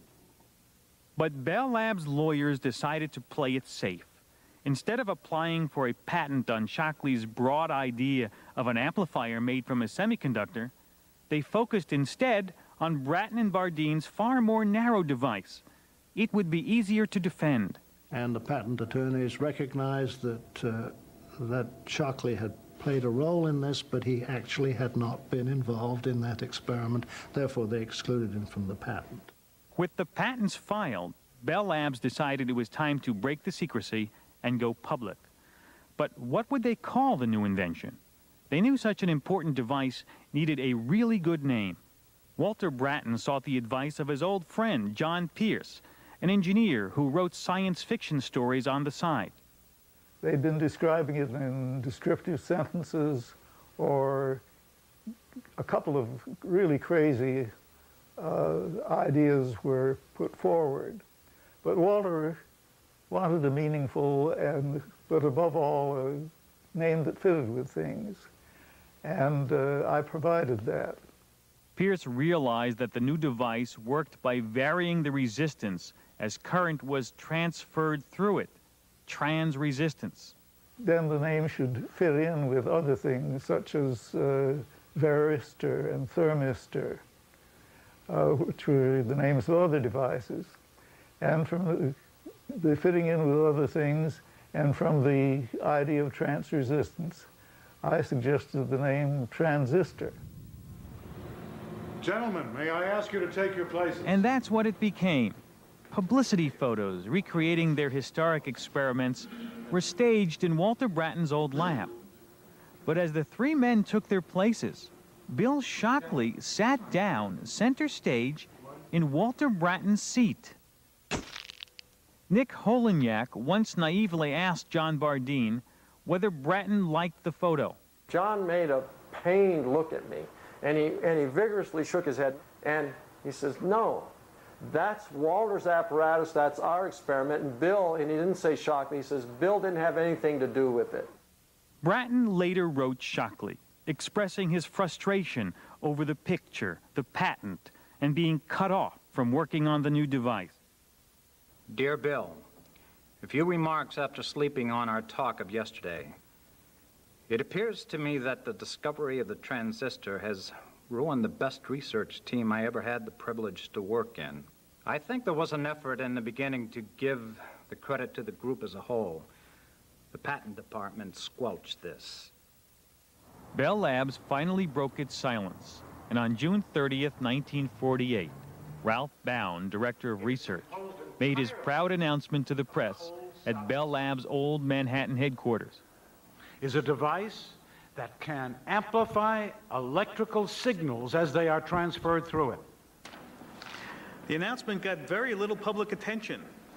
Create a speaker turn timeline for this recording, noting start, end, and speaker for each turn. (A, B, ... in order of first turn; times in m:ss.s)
0:01.2-0:10.7 A
0:11.3-0:15.6 A
0:16.2-0:17.8 A
0:18.1-0:29.3 B
0:29.8-0:35.3 A
0:36.0-0:38.0 A
0:38.5-0:41.8 A
0:42.4-0:49.4 A
0:50.2-0:54.4 C
0:55.6-0:57.5 C
0:58.2-1:01.0 C
1:01.6-1:02.4 C
1:03.1-1:08.3 C
1:09.0-1:11.0 C
1:11.8-1:20.3 A
1:20.8-1:27.0 C
1:28.1-1:30.6 C
1:31.2-1:32.0 C
1:32.6-1:37.3 C
1:37.8-1:40.2 C
1:42.0-1:44.2 D
1:44.0-1:45.4 A
1:45.9-1:52.0 A
1:52.8-2:00.6 A
2:02.3-2:07.8 A
2:08.1-2:21.1 E
2:21.8-2:30.6 A
2:31.7-2:32.4 F
2:33.2-2:36.2 F
2:37.3-2:49.3 F
2:50.1-2:52.3 F
2:53.5-3:05.8 A
3:06.6-3:12.6 D
3:14.3-3:16.5 A